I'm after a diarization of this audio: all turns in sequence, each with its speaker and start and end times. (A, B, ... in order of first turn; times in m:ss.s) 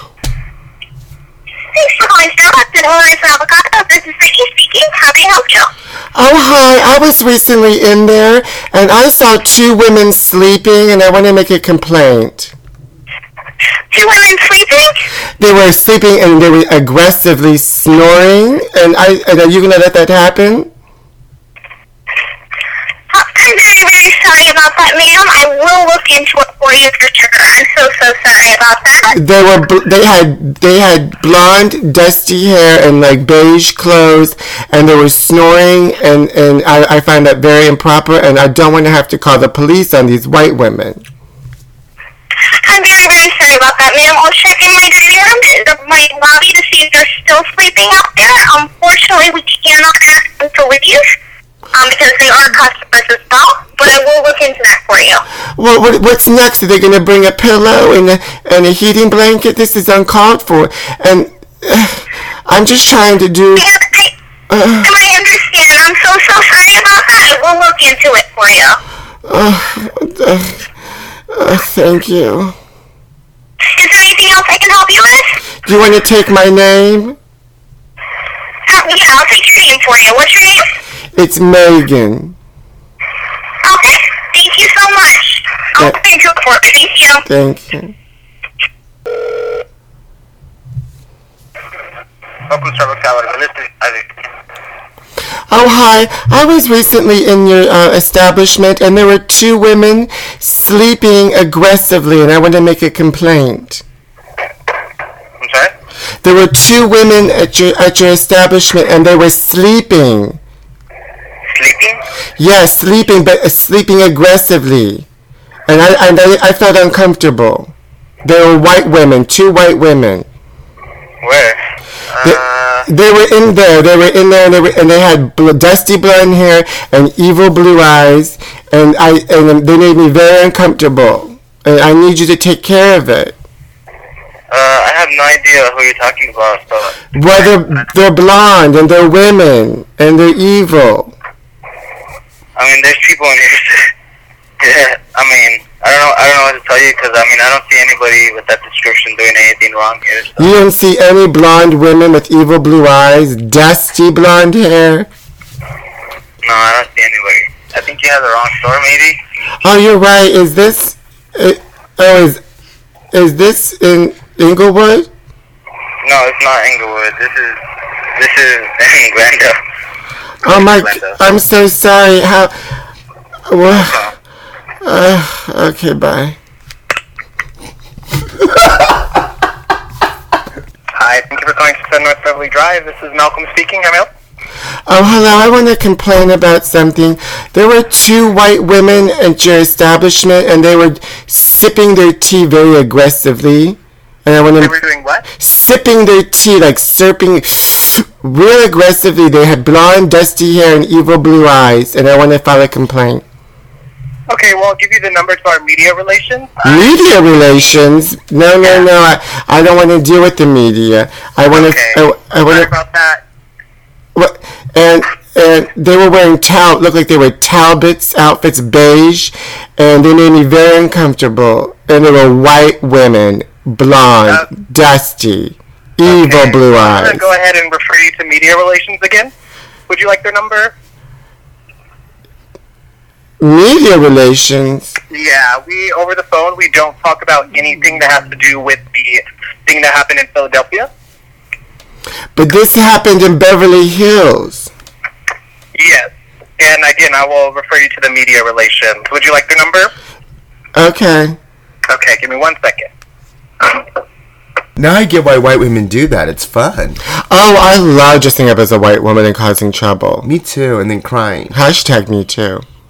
0:01.7-0:05.7 A
0:06.1-0:12.5 B
0:13.9-0:15.0 A
0:15.4-0:20.7 B
0:23.1-0:29.1 A
0:29.1-0:41.0 B
0:42.5-0:51.1 A
0:51.7-0:55.2 A
0:55.6-1:03.6 B
1:03.6-1:04.1 A
1:04.5-1:04.9 B
1:04.8-1:08.8 A
1:09.3-1:10.7 B
1:11.3-1:12.6 B
1:13.6-1:15.4 A
1:15.6-1:17.2 B
1:18.6-1:20.7 A
1:21.1-1:22.4 B
1:23.6-1:27.2 A
1:27.2-1:27.9 B
1:32.5-1:34.1 C
1:35.5-1:43.8 B
1:45.4-1:45.7 C
1:46.2-1:50.4 B
1:51.5-1:52.0 C
1:52.4-1:55.0 B
1:55.7-1:57.7 B
1:58.2-2:00.3 B
2:01.2-2:01.6 C
2:02.1-2:02.9 C
2:02.2-2:13.3 B
2:14.5-2:17.5 C
2:17.1-2:21.1 B
2:22.6-2:23.9 C
2:24.6-2:30.5 C
2:30.4-2:35.1 B
2:36.4-2:39.2 C
2:39.6-2:42.4 B
2:43.1-2:45.1 B
2:46.0-2:47.6 C
2:48.1-2:49.6 C
2:50.4-2:52.5 B
2:50.5-2:51.2 C
2:53.5-2:54.0 B
2:53.7-2:54.1 C
2:54.8-2:56.4 B
3:00.9-3:04.1 C
3:04.9-3:14.7 B
3:14.6-3:15.2 C
3:15.4-3:23.2 B
3:24.3-3:26.9 C
3:26.6-3:32.7 B
3:31.5-3:33.2 C
3:34.1-3:47.2 B
3:46.0-3:49.3 C
3:49.9-3:50.7 C
3:53.4-3:55.0 B
3:55.1-4:00.9 C
4:02.4-4:04.7 B
4:05.7-4:09.9 C
4:10.7-4:11.4 B
4:11.9-4:12.9 C
4:14.8-4:17.0 D
4:17.3-4:20.3 B
4:20.2-4:21.6 D
4:21.5-4:22.6 B